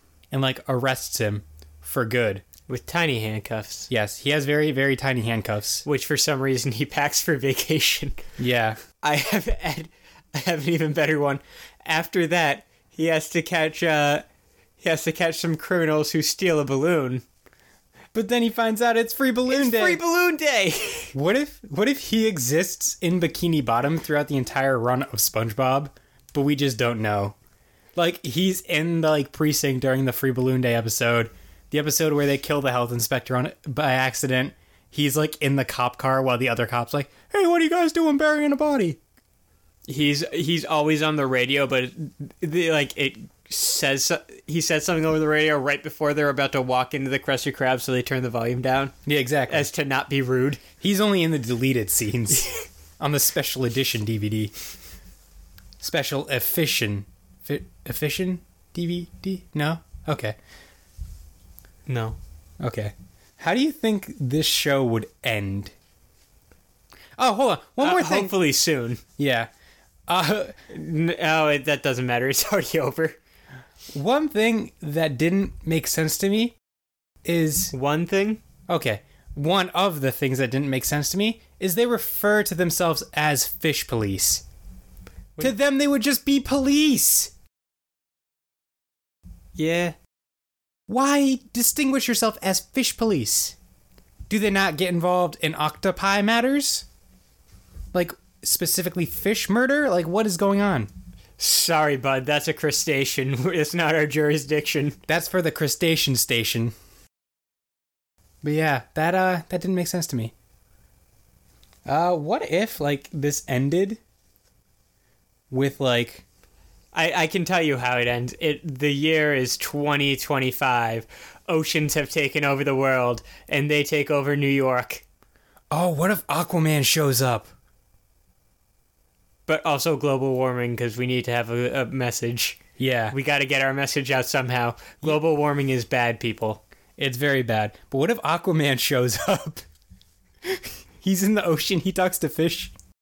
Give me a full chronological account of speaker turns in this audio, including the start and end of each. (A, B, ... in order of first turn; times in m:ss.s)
0:00.3-0:02.4 A
0:02.7-0:03.9 B
0:03.9-0:05.8 A
0:05.8-0:08.2 B
0:08.4-0:08.8 A
0:09.0-0:14.2 B
0:14.8-0:17.2 B
0:18.1-0:20.0 A
0:19.5-0:21.1 B
0:21.1-0:27.4 A
0:27.9-0:39.0 A
0:39.9-0:48.9 B
0:49.0-0:49.7 A
0:49.5-0:50.6 B
0:50.8-0:54.5 A
0:55.8-1:00.4 A
1:01.9-1:02.2 B
1:02.6-1:05.7 A
1:07.2-1:08.3 A
1:07.8-1:09.0 B
1:09.2-1:09.5 A
1:10.1-1:10.5 A
1:10.7-1:13.2 B
1:13.9-1:16.6 A
1:17.2-1:17.7 A
1:17.7-1:18.4 B
1:18.7-1:24.4 A
1:25.4-1:27.3 A
1:29.6-1:30.0 B
1:30.9-1:33.6 A
1:34.3-1:36.8 A
1:37.9-1:40.9 A
1:41.4-1:45.0 B
1:45.1-1:46.7 A
1:48.4-1:50.3 A
1:51.8-1:54.0 A
1:55.5-1:56.2 A
1:56.9-2:05.0 B
2:05.7-2:07.5 A
2:09.5-2:12.6 B
2:12.8-2:13.2 A
2:13.1-2:16.6 B
2:17.0-2:19.6 A
2:20.4-2:22.7 A